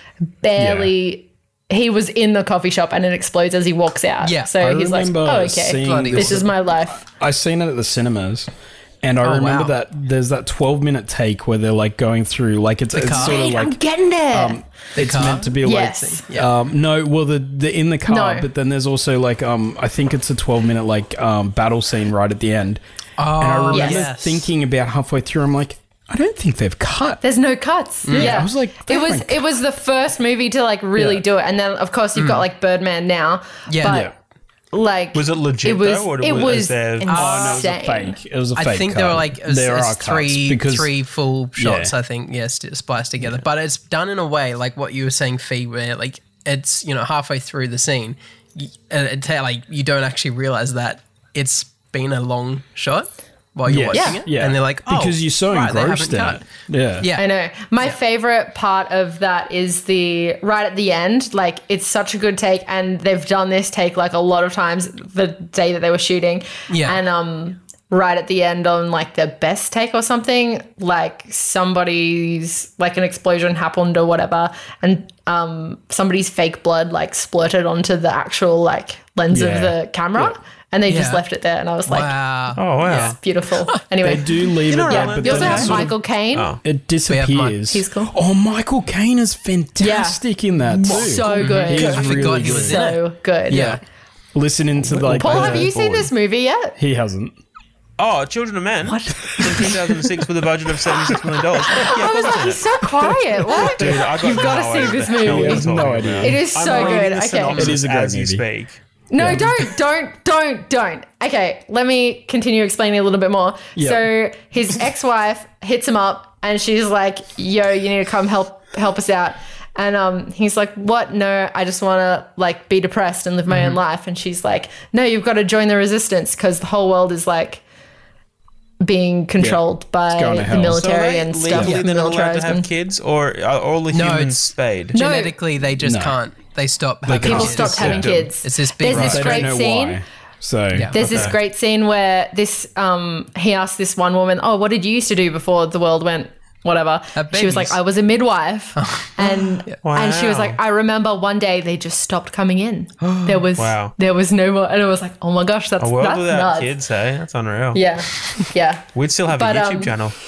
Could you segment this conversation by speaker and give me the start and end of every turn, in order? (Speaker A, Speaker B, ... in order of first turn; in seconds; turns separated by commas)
Speaker A: 0.4-7.0, Speaker B: 0.6-0.9, Speaker C: 4.2-4.5, Speaker B: 4.6-8.5, Speaker C: 5.8-6.5, Speaker B: 9.0-13.8, Speaker C: 9.2-9.7, Speaker C: 12.9-13.4, Speaker A: 13.1-14.6, Speaker B: 14.3-22.8, Speaker C: 14.9-16.5, Speaker A: 15.6-16.2, Speaker A: 18.1-18.5, Speaker C: 23.2-24.5, Speaker B: 23.4-27.2, Speaker A: 23.7-24.1, Speaker A: 27.2-34.1, Speaker C: 28.1-28.4, Speaker B: 28.1-29.5, Speaker B: 31.0-31.2, Speaker C: 32.2-32.5, Speaker C: 33.7-34.1, Speaker B: 33.9-34.1, Speaker A: 34.7-38.2, Speaker D: 35.1-37.1, Speaker C: 37.0-37.6, Speaker B: 37.1-40.9, Speaker C: 38.6-57.2, Speaker B: 41.6-41.9, Speaker B: 53.7-57.1, Speaker A: 53.9-54.2, Speaker A: 57.1-82.2, Speaker C: 66.7-67.0, Speaker B: 79.3-80.3, Speaker C: 80.9-81.2, Speaker C: 81.9-83.2, Speaker D: 82.6-83.2, Speaker A: 82.8-86.5, Speaker B: 84.0-86.0, Speaker D: 84.6-86.6, Speaker B: 86.6-92.8, Speaker C: 87.1-87.6, Speaker A: 87.7-88.1, Speaker A: 89.8-90.2, Speaker D: 90.7-92.3, Speaker A: 90.8-93.8, Speaker C: 91.4-93.8, Speaker B: 93.5-93.8, Speaker B: 94.3-95.7, Speaker D: 94.8-96.1, Speaker A: 95.1-96.8, Speaker B: 96.8-97.3, Speaker D: 98.0-102.8, Speaker A: 98.8-99.8, Speaker B: 99.3-99.8, Speaker A: 101.7-107.7, Speaker B: 103.1-104.2, Speaker D: 103.5-108.8, Speaker B: 105.2-107.0, Speaker B: 107.5-108.5, Speaker A: 109.1-127.6, Speaker B: 109.2-109.6, Speaker B: 113.8-114.1, Speaker A: 128.8-132.7, Speaker B: 129.4-130.9, Speaker D: 130.7-135.0, Speaker C: 133.9-139.5, Speaker A: 134.9-135.4, Speaker B: 135.8-136.2, Speaker B: 137.1-138.1, Speaker D: 137.2-138.3, Speaker A: 137.2-140.0, Speaker D: 138.9-139.4, Speaker B: 138.9-141.3, Speaker C: 140.7-141.0, Speaker A: 140.9-156.7, Speaker D: 140.9-141.4, Speaker C: 147.2-147.8, Speaker C: 148.8-149.8, Speaker D: 149.8-150.6, Speaker D: 153.6-153.9, Speaker D: 155.8-157.8, Speaker A: 157.7-160.0, Speaker D: 158.9-160.2